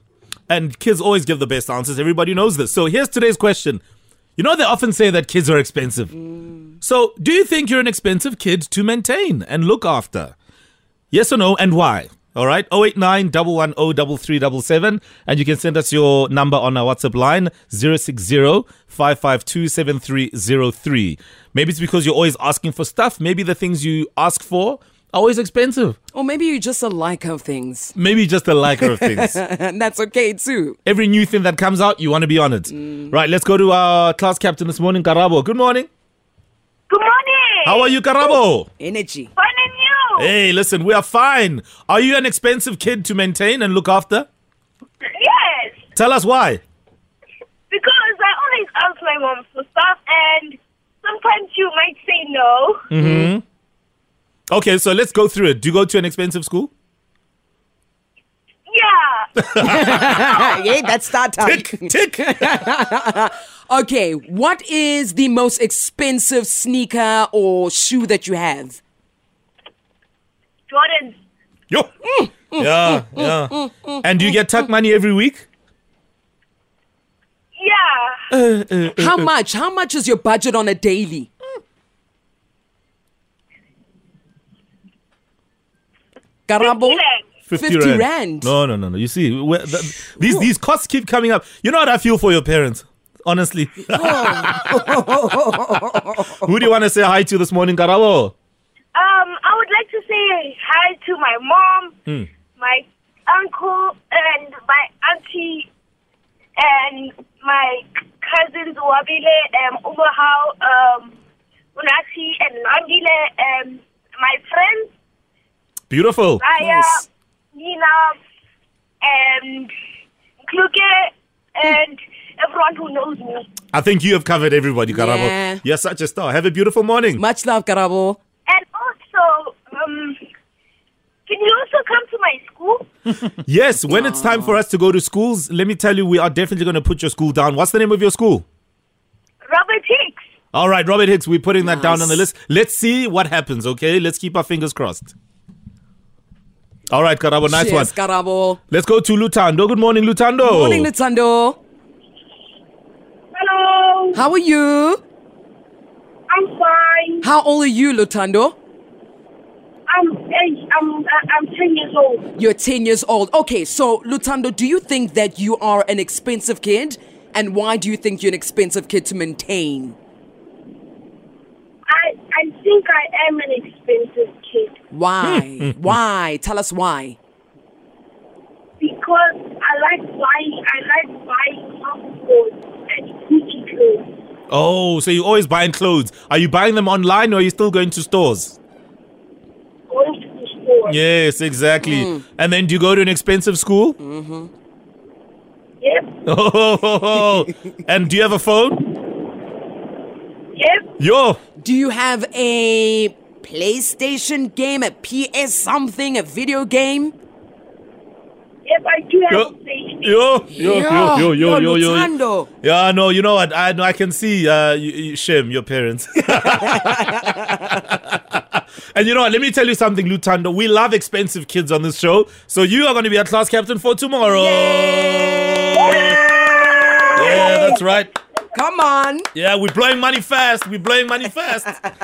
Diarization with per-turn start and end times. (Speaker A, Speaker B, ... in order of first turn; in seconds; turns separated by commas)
Speaker A: 0.5-3.8, Speaker A: 4.4-6.1, Speaker A: 6.8-10.3, Speaker A: 11.1-26.0, Speaker B: 26.1-27.9, Speaker A: 27.9-29.4, Speaker B: 28.7-30.8, Speaker A: 30.9-35.9, Speaker C: 36.9-37.9, Speaker A: 37.6-38.7, Speaker B: 38.8-39.3, Speaker C: 39.4-40.3, Speaker A: 40.2-44.3, Speaker C: 45.2-45.8, Speaker A: 46.0-46.6, Speaker C: 47.7-52.9, Speaker A: 52.9-53.4, Speaker B: 53.0-53.3, Speaker A: 54.5-56.7, Speaker C: 58.7-59.3, Speaker A: 59.4-60.5, Speaker B: 59.6-68.8, Speaker A: 61.4-62.7, Speaker C: 70.7-71.2, Speaker B: 72.1-74.0, Speaker A: 72.5-75.5, Speaker C: 77.6-78.3, Speaker A: 78.3-79.3, Speaker B: 78.9-81.3, Speaker B: 86.5-87.0, Speaker C: 86.6-87.3, Speaker A: 87.5-95.2, Speaker B: 87.5-88.6, Speaker B: 93.9-96.3, Speaker A: 96.1-98.3, Speaker C: 99.0-102.0, Speaker C: 102.6-105.7, Speaker C: 106.6-111.2, Speaker C: 111.8-114.9, Speaker A: 115.9-116.4, Speaker C: 116.4-118.2, Speaker B: 116.6-117.0, Speaker C: 119.0-119.7, Speaker C: 120.5-123.5, Speaker A: 123.7-127.2, Speaker B: 124.9-125.6, Speaker B: 127.2-128.2, Speaker C: 128.5-130.2, Speaker C: 131.3-132.9, Speaker A: 133.4-138.4, Speaker B: 133.9-134.6, Speaker C: 139.5-140.2, Speaker A: 140.5-145.1, Speaker B: 141.6-142.2, Speaker A: 146.9-147.9, Speaker B: 147.5-148.6, Speaker A: 148.7-150.9, Speaker B: 150.4-151.6, Speaker C: 153.3-154.2, Speaker B: 154.1-155.0, Speaker C: 156.3-157.3, Speaker B: 157.2-158.6, Speaker C: 159.9-162.3, Speaker B: 162.3-170.0, Speaker C: 171.9-174.8, Speaker B: 174.9-177.2, Speaker A: 175.2-175.9, Speaker C: 178.8-184.1, Speaker A: 184.5-188.6, Speaker C: 189.9-191.0, Speaker A: 190.9-194.0, Speaker B: 191.8-192.2, Speaker B: 194.0-194.5, Speaker C: 195.8-196.2, Speaker A: 196.2-198.9, Speaker C: 200.6-200.9, Speaker A: 201.0-201.4, Speaker B: 201.6-207.1, Speaker C: 208.7-210.2, Speaker A: 210.0-226.2, Speaker B: 210.5-212.5, Speaker B: 216.5-217.1, Speaker B: 224.2-227.8, Speaker C: 226.0-226.2, Speaker C: 226.8-227.7, Speaker A: 227.1-228.1, Speaker B: 228.5-229.3, Speaker A: 229.3-231.8